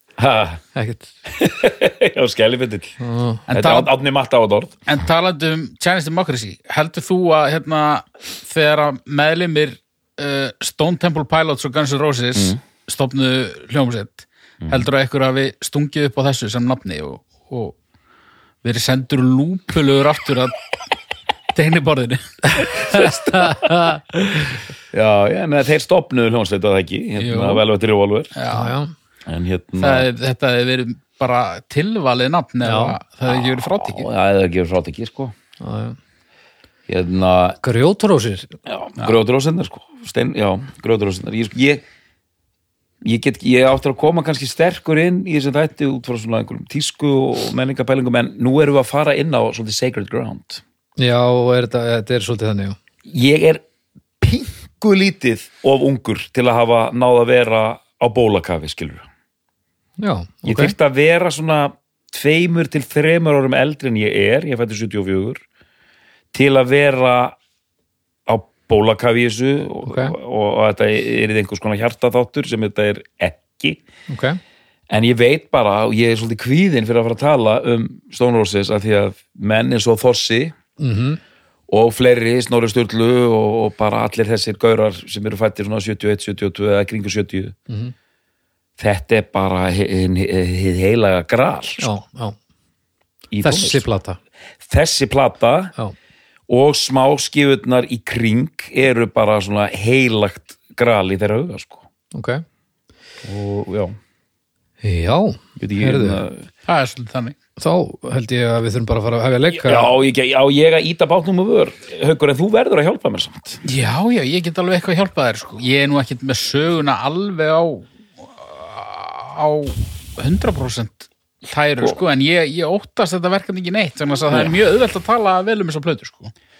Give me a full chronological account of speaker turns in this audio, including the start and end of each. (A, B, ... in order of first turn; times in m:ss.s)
0:00.2-0:00.6 A
0:00.7-0:01.1 B
0:01.3-0:03.0 A
0:03.0-0:03.4 B
0:03.5-0:03.9 C
0:03.5-0:04.8 A
0:04.9-0:17.8 C
0:18.6-0:20.6 C
0:21.5-0:23.7 C
0:22.9-0:23.5 A
0:24.9-0:28.3 A
0:27.2-0:27.6 C
0:28.4-0:28.7 C
0:28.5-0:28.9 B
0:29.3-0:30.1 A
0:29.8-0:34.1 C
0:32.6-0:33.0 B
0:33.3-0:35.3 A
0:35.6-0:36.0 B
0:36.9-0:37.6 A
0:37.6-0:38.5 B
0:38.7-0:41.8 A
0:43.0-0:50.6 A
0:51.0-0:52.8 B
0:53.1-0:53.6 A
0:54.2-0:59.1 A
1:00.0-1:00.7 B
1:00.4-1:05.4 A
1:06.3-1:07.4 A
1:08.3-1:13.8 A
1:09.9-1:10.2 B
1:14.1-1:14.4 B
1:14.9-1:20.6 A
1:20.8-1:21.2 B
1:21.7-1:27.6 A
1:27.7-1:27.9 B
1:28.8-1:32.0 A
1:31.8-1:32.4 B
1:33.3-1:33.9 A
1:33.4-1:34.2 B
1:34.6-1:35.7 A
1:36.5-1:41.8 A
1:42.1-1:42.4 B
1:43.2-1:44.0 A
1:44.8-1:46.2 B
1:45.6-1:46.5 A
1:46.7-1:47.4 C
1:47.6-1:49.9 B
1:49.5-1:53.6 A
1:53.6-2:06.3 C
2:04.3-2:04.6 A